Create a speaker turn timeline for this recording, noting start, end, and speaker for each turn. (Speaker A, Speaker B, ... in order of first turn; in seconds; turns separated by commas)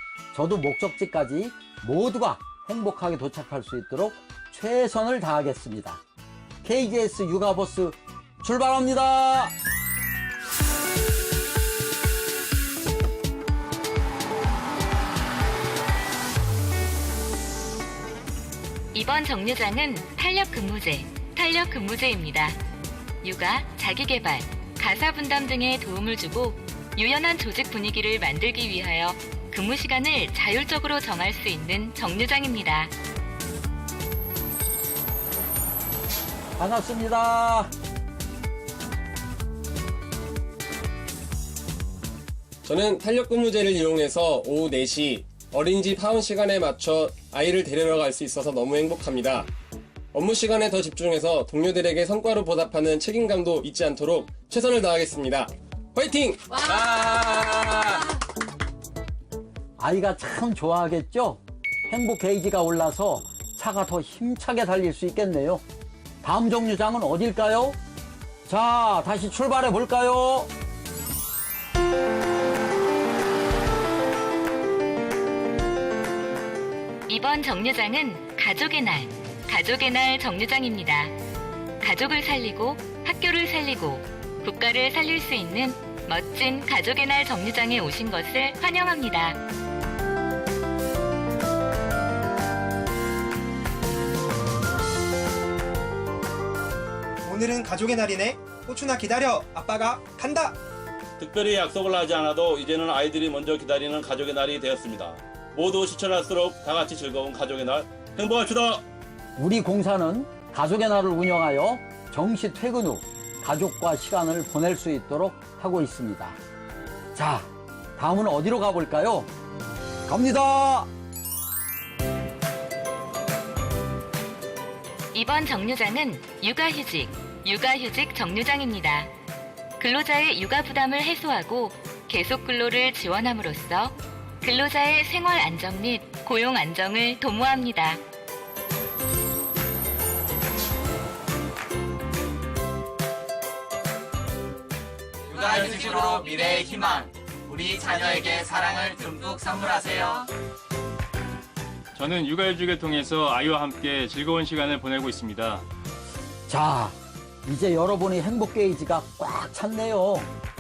Speaker A: 0.3-6.0, Speaker A: 6.6-9.6, Speaker B: 18.9-22.6, Speaker B: 23.2-32.9, Speaker A: 36.6-37.7, Speaker C: 42.6-49.5, Speaker C: 50.1-58.1, Speaker A: 59.8-65.6, Speaker A: 66.2-67.8, Speaker A: 68.5-70.5, Speaker B: 77.1-81.1, Speaker B: 81.8-89.4, Speaker D: 97.2-100.6, Speaker E: 101.2-108.8, Speaker A: 109.4-116.4, Speaker A: 117.1-119.3, Speaker A: 120.1-120.9, Speaker B: 125.1-129.1, Speaker B: 129.8-138.0, Speaker F: 145.3-150.3, Speaker G: 151.9-155.7, Speaker A: 156.5-160.3